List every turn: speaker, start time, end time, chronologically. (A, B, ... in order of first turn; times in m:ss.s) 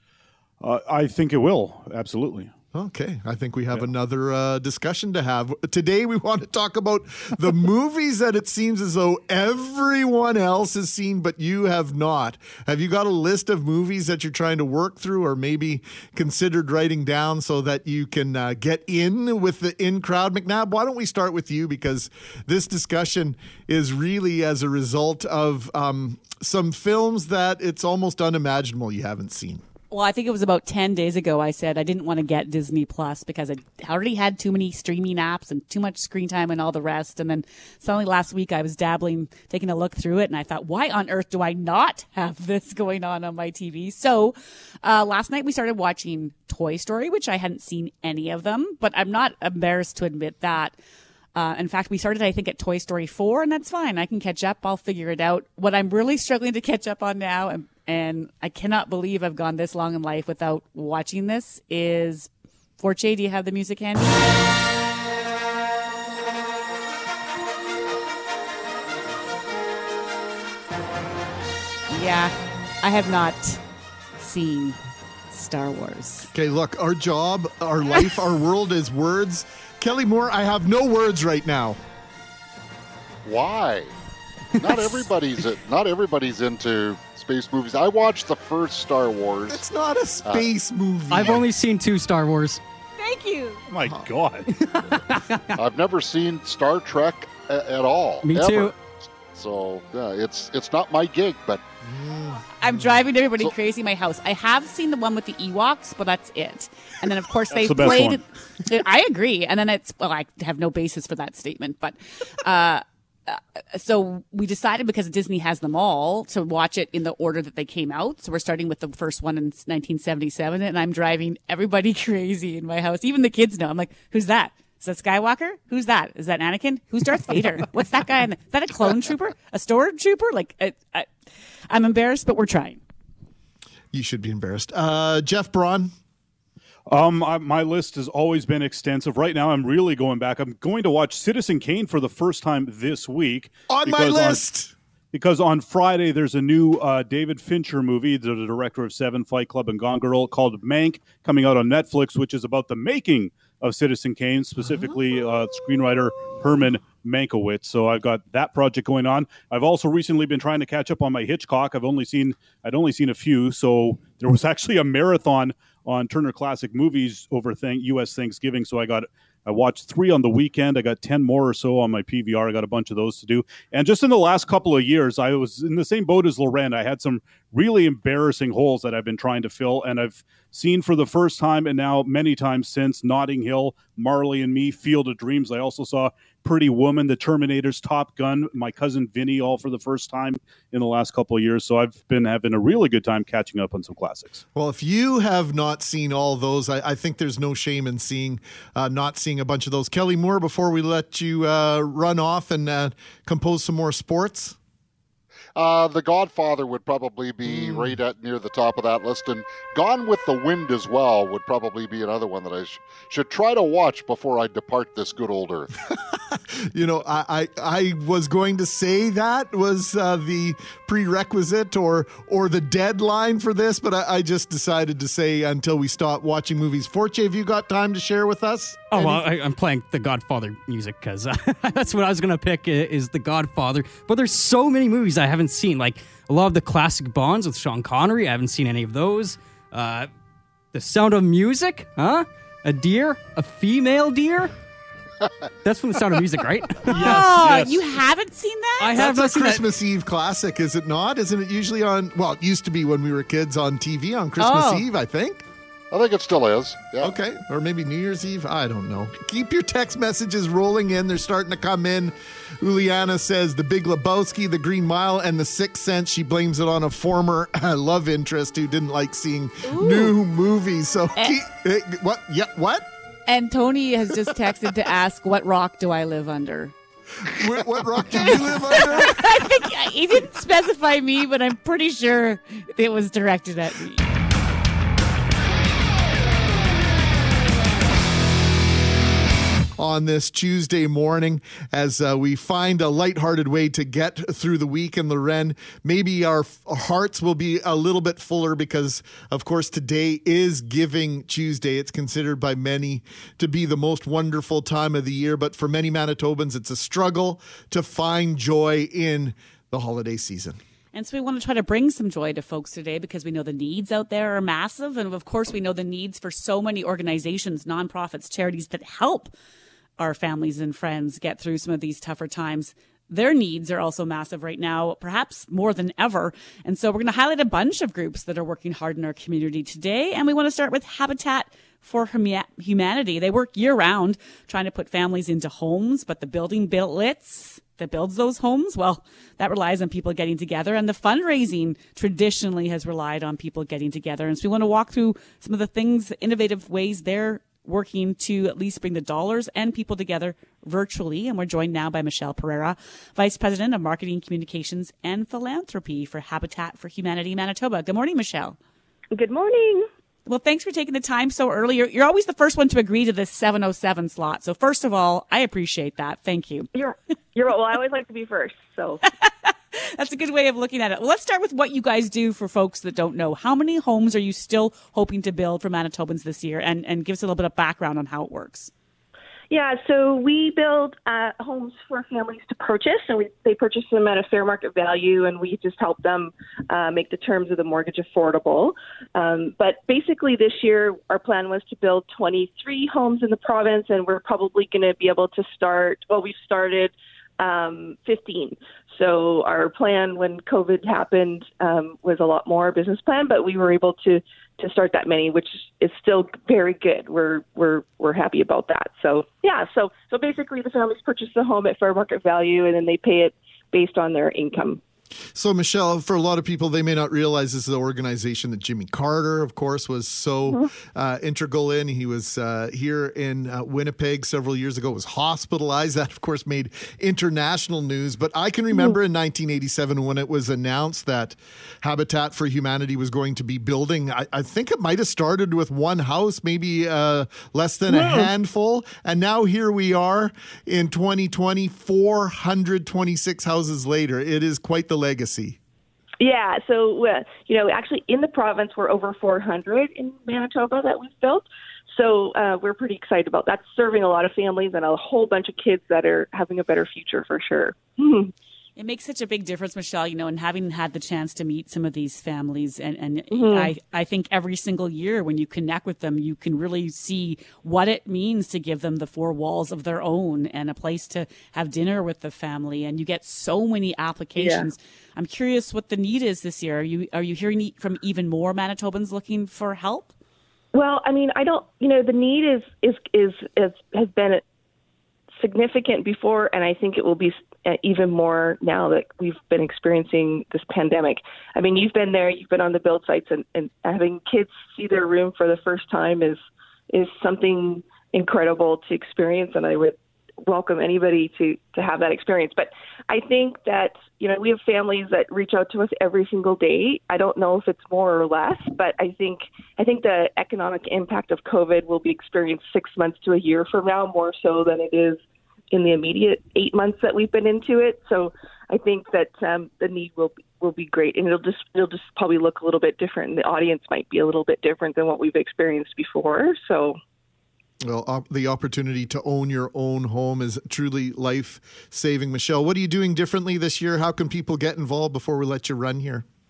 0:00.6-0:02.5 A
0:02.7-0:29.6 B
0:29.9-0:50.8 C
0:51.3-1:04.1 C
1:11.9-1:13.6 C
1:14.2-1:14.8 C
1:15.3-1:16.3 C
1:16.3-1:21.8 B
1:23.2-1:23.9 D
1:24.6-1:29.6 D
1:24.6-1:25.0 E
1:29.5-1:31.4 B
1:31.1-1:32.6 E
1:33.0-1:33.6 C
1:33.7-1:34.5 A
1:34.6-1:35.4 E
1:35.6-1:38.7 D
1:38.2-1:38.7 E
1:39.3-1:41.6 D
1:41.9-1:42.4 B
1:42.6-2:11.1 C
1:47.5-1:48.2 A
2:11.7-2:12.8 C
2:13.9-2:15.9 B
2:16.9-2:24.4 A
2:23.7-2:24.7 B
2:25.1-3:14.4 A
3:14.5-3:24.6 B
3:25.6-3:35.7 D
3:27.4-3:28.0 B
3:36.3-3:49.2 B
3:48.9-4:00.1 E
4:00.7-4:04.5 E
4:05.6-4:07.8 E
4:06.9-4:09.1 C
4:08.8-4:09.6 E
4:08.9-4:15.4 B
4:14.4-4:14.8 C
4:15.9-4:17.1 D
4:17.0-4:32.9 B
4:29.6-4:30.1 C
4:33.3-4:36.7 C
4:37.2-4:39.3 B
4:38.1-4:44.1 C
4:49.8-5:10.6 B
5:10.9-5:19.3 C
5:20.0-5:58.6 C
5:59.1-5:59.9 F
6:00.2-6:06.7 C
6:06.7-6:09.0 F
6:09.2-6:18.7 C
6:19.5-6:54.8 F
6:55.3-7:25.6 B
7:17.9-7:18.3 F
7:26.2-7:38.3 F
7:38.8-8:00.1 C
7:43.3-7:43.7 F
7:54.4-7:54.7 F
8:00.7-8:04.4 F
8:05.4-8:47.0 F
8:47.8-8:56.2 B